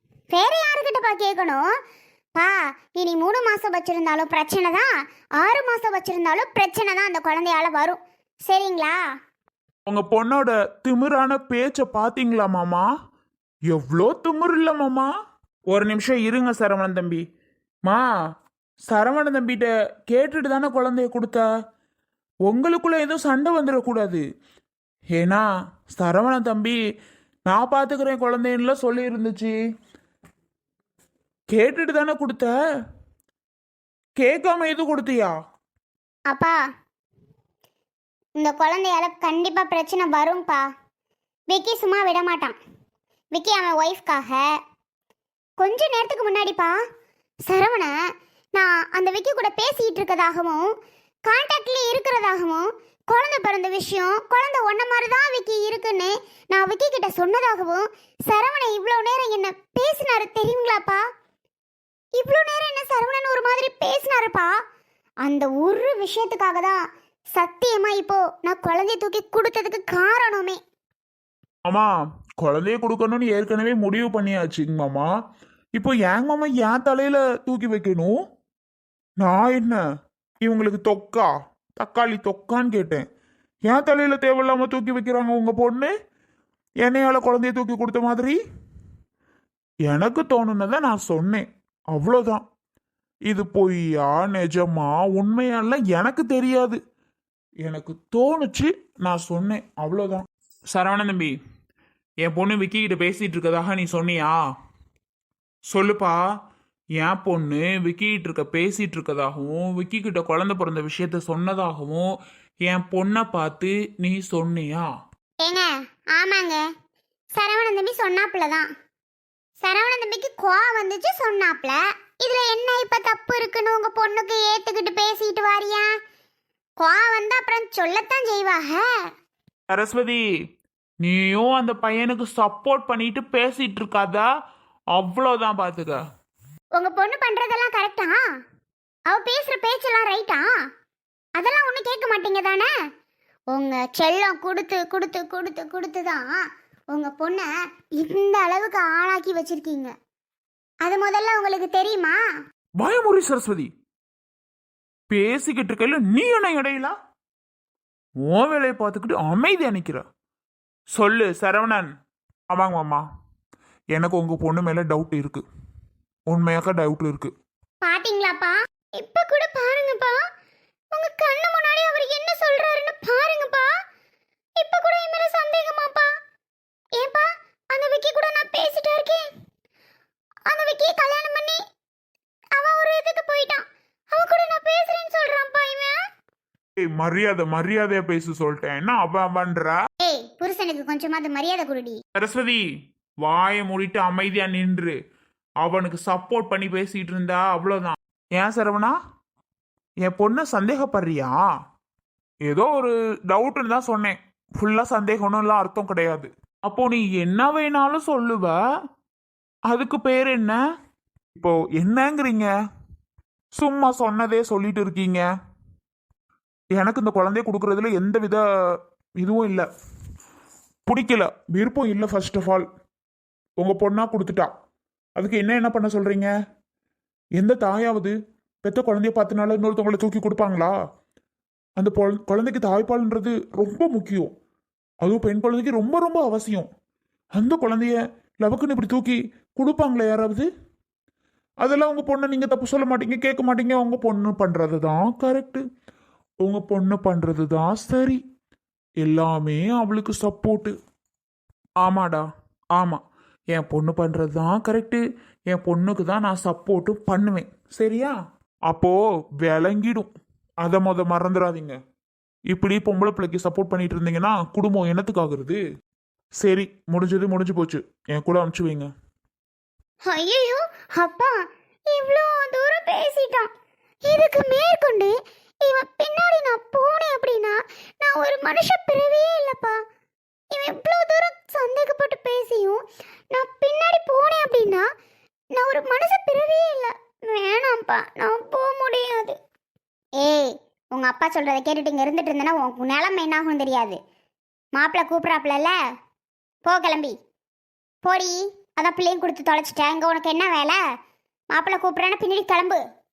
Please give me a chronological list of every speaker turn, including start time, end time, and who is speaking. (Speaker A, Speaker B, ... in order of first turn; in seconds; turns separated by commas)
Speaker A: 0.3-1.6, Speaker A: 2.3-9.0, Speaker B: 9.9-12.9, Speaker B: 13.7-15.1, Speaker B: 15.7-17.2, Speaker B: 18.9-21.5, Speaker B: 22.4-24.2, Speaker B: 25.1-26.8, Speaker B: 27.5-29.6, Speaker B: 31.5-32.5, Speaker B: 34.2-35.4, Speaker A: 36.3-36.6, Speaker A: 38.4-40.6, Speaker A: 41.5-42.5, Speaker A: 43.3-44.5, Speaker A: 45.6-46.7, Speaker A: 47.5-47.9, Speaker A: 48.5-50.7, Speaker A: 51.2-61.0, Speaker A: 62.2-64.5, Speaker A: 65.2-66.8, Speaker A: 67.3-70.6, Speaker B: 71.6-75.1, Speaker B: 75.7-78.1, Speaker B: 79.2-79.8, Speaker B: 80.4-83.0, Speaker B: 83.7-85.9, Speaker B: 86.8-88.4, Speaker B: 89.8-92.4, Speaker B: 93.3-96.8, Speaker B: 97.6-101.4, Speaker B: 102.2-104.4, Speaker B: 105.7-106.2, Speaker B: 107.0-112.1, Speaker B: 112.6-114.9, Speaker A: 115.4-116.6, Speaker A: 117.3-118.7, Speaker A: 119.6-125.9, Speaker A: 126.8-128.9, Speaker B: 129.7-130.2, Speaker B: 131.0-134.3, Speaker B: 134.9-136.0, Speaker A: 136.8-138.2, Speaker A: 139.1-140.5, Speaker A: 141.4-142.7, Speaker A: 143.5-146.3, Speaker A: 146.9-149.9, Speaker A: 150.8-152.2, Speaker B: 152.8-153.7, Speaker B: 155.1-156.9, Speaker B: 158.2-160.0, Speaker B: 160.9-161.9, Speaker B: 162.5-163.0, Speaker B: 163.9-165.4, Speaker B: 166.3-167.3, Speaker A: 167.8-170.2, Speaker A: 170.9-173.7, Speaker A: 174.6-176.1, Speaker A: 177.0-179.3, Speaker A: 180.5-181.6, Speaker A: 182.5-185.9, Speaker B: 186.8-189.8, Speaker A: 190.0-191.9, Speaker B: 192.1-192.7, Speaker B: 193.2-195.0, Speaker B: 195.6-199.0, Speaker B: 200.0-201.4, Speaker B: 202.4-208.6, Speaker B: 209.7-210.6, Speaker B: 211.3-212.5, Speaker B: 213.5-215.2, Speaker B: 216.7-218.4, Speaker B: 219.2-219.7, Speaker B: 220.9-222.7, Speaker B: 223.6-224.5, Speaker B: 225.2-226.3, Speaker B: 227.4-230.7, Speaker B: 231.8-234.3, Speaker B: 235.0-236.7, Speaker B: 237.3-240.5, Speaker B: 241.6-245.6, Speaker B: 246.4-248.2, Speaker B: 249.0-250.8, Speaker B: 251.8-258.1, Speaker B: 258.7-260.1, Speaker B: 260.6-261.8, Speaker B: 262.5-265.6, Speaker B: 266.4-268.9, Speaker A: 270.1-273.5, Speaker A: 274.1-279.8, Speaker A: 280.5-284.9, Speaker A: 285.5-289.4, Speaker A: 290.2-294.0, Speaker A: 294.7-295.8, Speaker A: 296.6-297.1, Speaker A: 298.0-300.8, Speaker A: 301.5-302.8